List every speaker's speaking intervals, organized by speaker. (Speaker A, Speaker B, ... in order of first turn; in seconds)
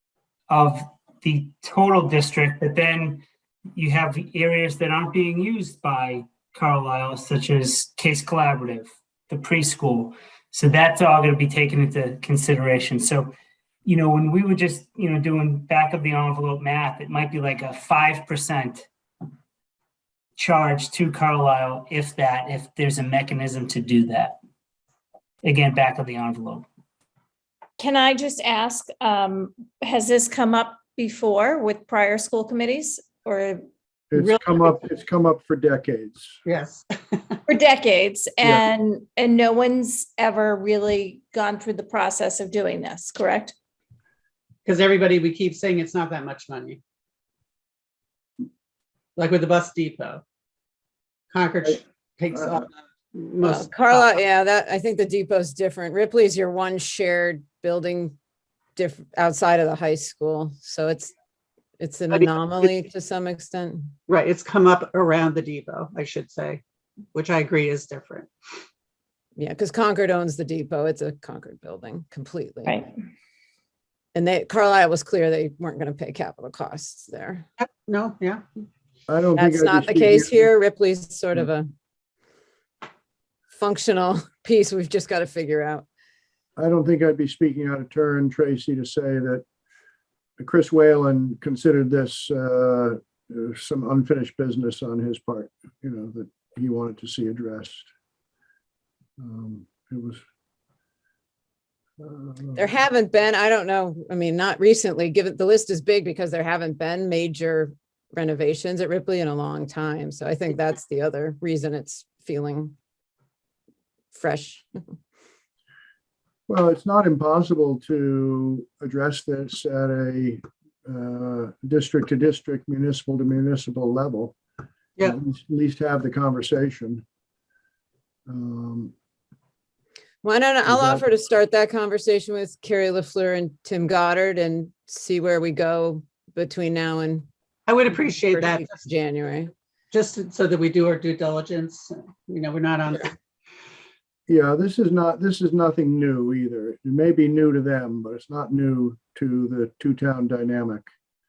Speaker A: 0.5-13.3, 13.8-18.9, 20.4-24.4, 25.4-26.7
Speaker B: 27.8-33.6, 37.5-43.5
Speaker C: 34.1-36.4, 79.1-80.5, 86.6-89.4, 90.4-97.9, 99.2-100.2, 102.0-102.7, 116.5-124.4, 125.0-127.0, 128.3-128.9, 130.7-131.1, 144.3-150.9
Speaker D: 34.2-34.6, 36.5-37.4, 44.6-46.8, 49.2-50.2, 51.3-54.1, 64.1-66.6, 67.1-68.3, 77.6-78.4, 137.7-138.8, 139.9-143.2
Speaker E: 53.4-58.2, 58.8-61.1, 61.8-63.9, 69.4-72.8, 74.1-77.5, 79.4-81.7, 83.5-85.9, 102.5-112.7, 114.1-115.0, 130.2-137.3, 138.3-139.5